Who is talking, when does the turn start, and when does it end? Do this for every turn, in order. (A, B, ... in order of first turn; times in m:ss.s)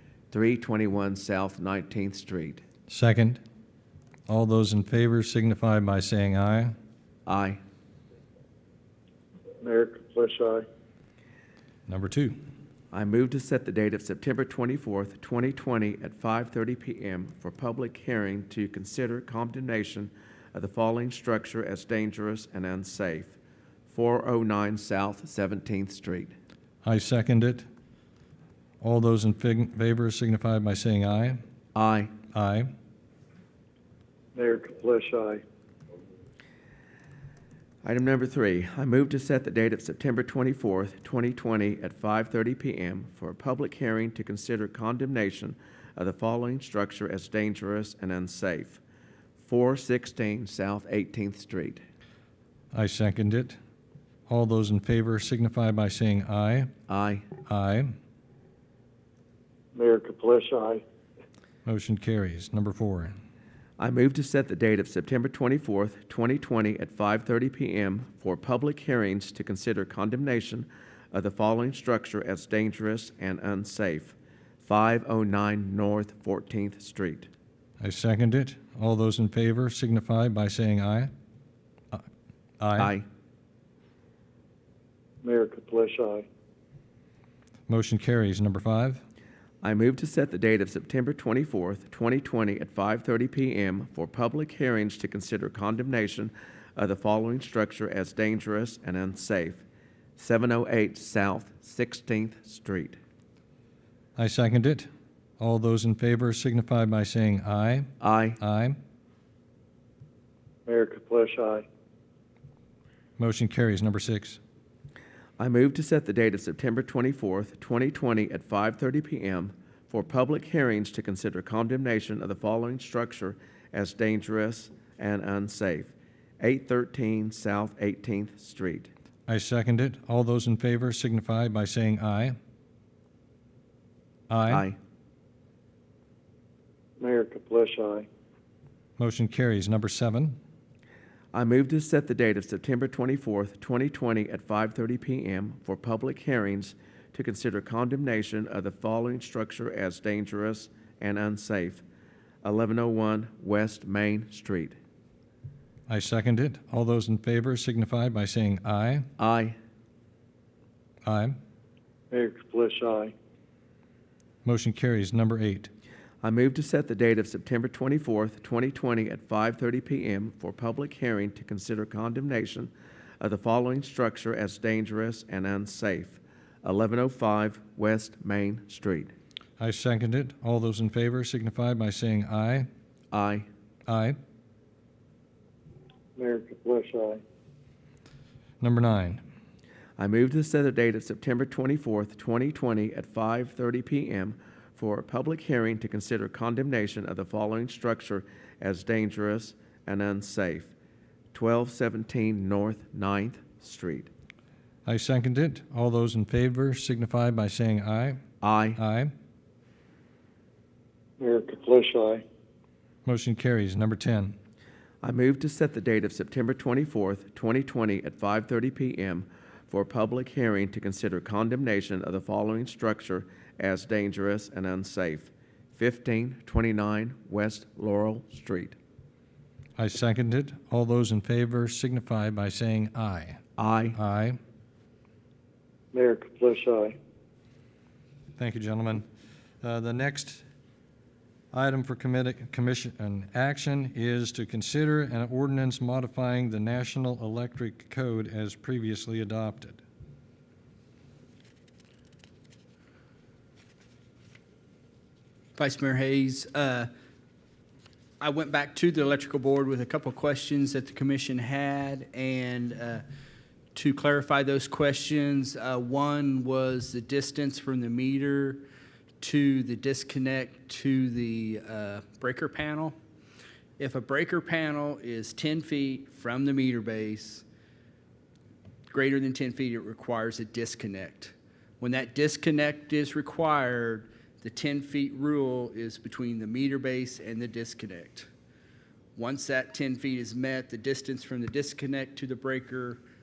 0:00.3-0:02.6 A
0:02.9-0:03.4 B
0:04.3-0:06.7 B
0:07.2-0:07.6 A
0:09.6-0:10.6 C
0:11.9-0:12.4 B
0:12.9-0:23.3 A
0:23.9-0:26.3 A
0:26.8-0:27.6 B
0:28.8-0:31.4 B
0:31.7-0:32.1 A
0:32.3-0:32.7 B
0:34.3-0:35.4 C
0:37.8-0:48.8 A
0:49.4-0:51.8 A
0:52.7-0:53.6 B
0:54.3-0:56.7 B
0:56.9-0:57.2 A
0:57.5-0:57.9 B
0:59.7-1:00.8 C
1:01.6-1:03.1 B
1:03.8-1:17.3 A
1:17.8-1:21.1 B
1:22.6-1:22.9 B
1:22.8-1:23.0 A
1:25.2-1:26.2 C
1:27.7-1:29.0 B
1:29.6-1:39.6 A
1:40.2-1:43.0 A
1:44.2-1:44.9 B
1:45.4-1:47.9 B
1:48.0-1:48.4 A
1:48.4-1:48.8 B
1:50.6-1:51.6 C
1:53.2-1:54.4 B
1:55.4-2:08.9 A
2:09.3-2:12.4 B
2:14.3-2:14.6 B
2:14.5-2:14.8 A
2:17.0-2:18.1 C
2:19.0-2:20.4 B
2:21.3-2:31.8 A
2:32.4-2:34.7 A
2:35.9-2:39.1 B
2:39.2-2:39.6 A
2:41.0-2:41.4 B
2:42.1-2:43.1 C
2:44.4-2:45.7 B
2:46.2-2:59.1 A
2:59.6-3:02.7 B
3:03.1-3:03.4 A
3:03.9-3:04.2 B
3:06.2-3:07.2 C
3:08.6-3:09.2 B
3:10.0-3:20.7 A
3:21.3-3:24.1 A
3:24.8-3:28.2 B
3:28.4-3:28.8 A
3:28.8-3:29.1 B
3:31.2-3:32.2 C
3:33.0-3:34.4 B
3:35.0-3:48.7 A
3:49.8-3:53.4 B
3:53.6-3:54.0 A
3:53.9-3:54.4 B
3:55.9-3:57.0 C
3:58.4-3:59.0 B
3:59.6-4:00.4 B
4:01.5-4:09.8 B
4:15.6-4:16.9 D
4:18.2-4:23.0 D
4:23.7-4:28.6 D
4:29.2-4:33.0 D
4:33.8-4:37.4 D
4:38.9-4:48.3 D
4:49.2-4:53.0 D